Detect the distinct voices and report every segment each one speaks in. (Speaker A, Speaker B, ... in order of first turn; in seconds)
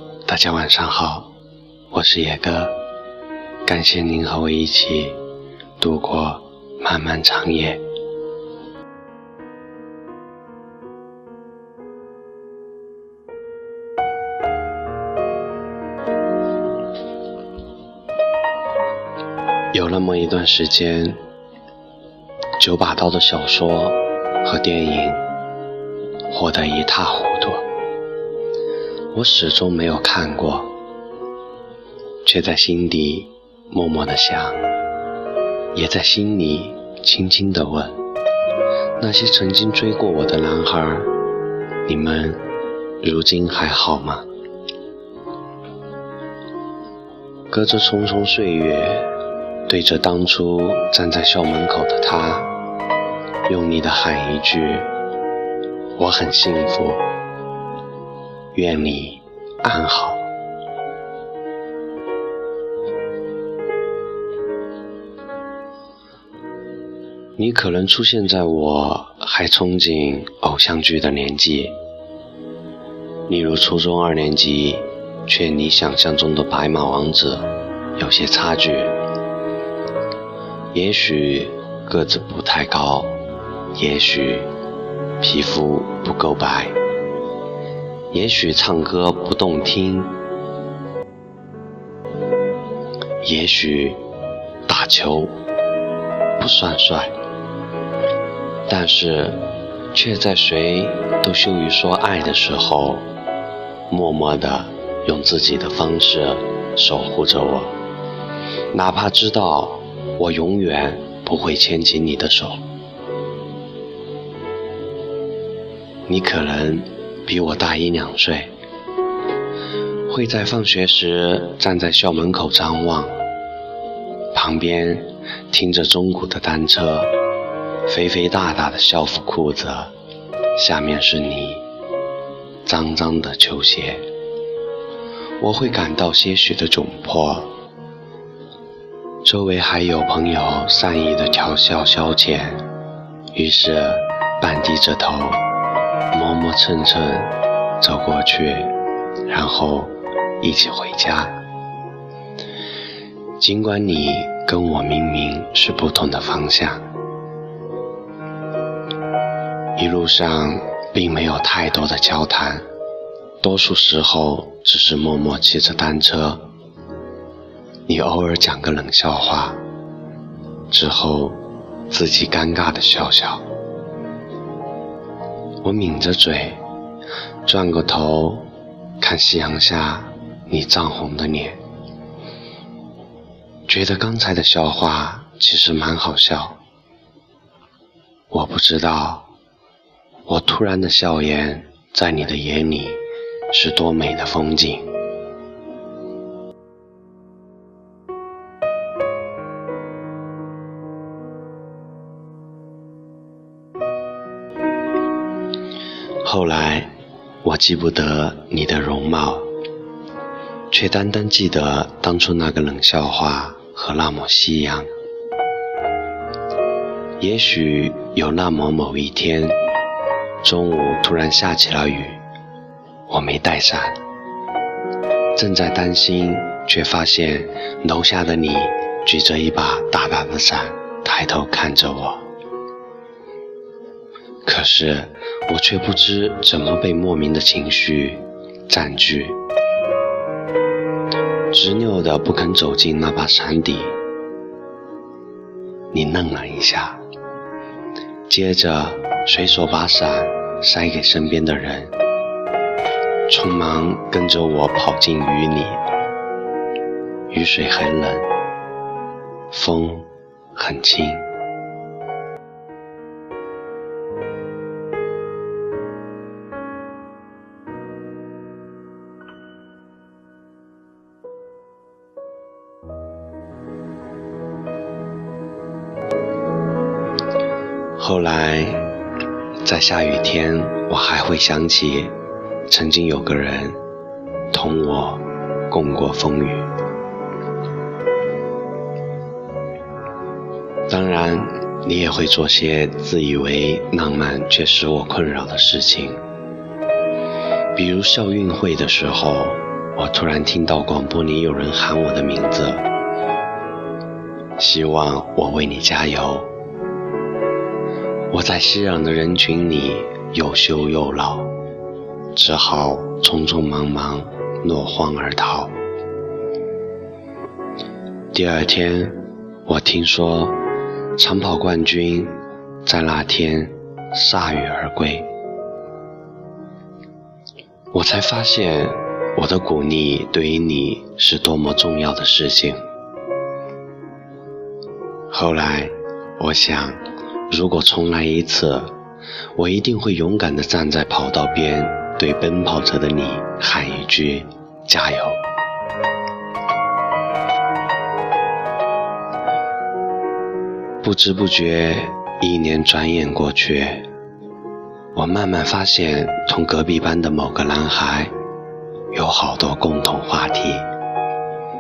Speaker A: 0.3-1.3, 1.9-2.8, 3.6-5.2, 5.8-7.8, 19.7-21.2, 22.6-25.2, 26.3-27.7, 29.1-30.8, 32.2-34.6, 35.7-38.0, 39.0-41.1, 41.9-42.5, 43.0-44.3, 47.5-49.1, 49.7-52.5, 53.5-54.9, 56.0-57.1, 58.5-60.3, 67.4-71.8, 73.3-79.0, 80.7-83.2, 83.7-84.5, 85.2-86.8, 88.1-90.2, 93.2-94.0, 94.7-95.4, 96.4-97.2, 98.7-103.1, 103.9-107.8, 108.7-112.6, 116.1-118.5, 120.1-123.2, 124.3-127.1, 127.9-129.9, 130.6-131.6, 132.7-134.1, 135.4-137.5, 139.2-142.7, 143.3-145.4, 146.1-148.8, 149.3-151.4, 153.4-156.8, 159.8-162.6, 163.4-166.5, 167.9-169.6, 170.7-173.4, 175.6-176.6, 177.5-181.6, 183.7-186.6, 188.3-189.3, 190.3-193.0, 193.5-194.9, 206.2-209.5, 210.7-214.9, 217.2-219.6, 220.4-222.2, 223.1-224.0, 225.3-232.3, 234.4-239.4, 241.5-244.0, 245.9-247.0, 248.3-252.0, 253.3-255.8, 257.3-258.3, 259.5-261.3, 278.0-278.9, 279.6-282.1, 282.7-283.8, 284.5-286.7, 290.9-296.2, 297.8-302.9, 304.6-306.5, 308.3-311.6, 312.4-315.8, 318.3-320.6, 321.2-325.3, 327.9-332.8, 335.3-338.9, 339.6-345.4, 351.0-354.1, 355.1-358.3, 359.1-360.9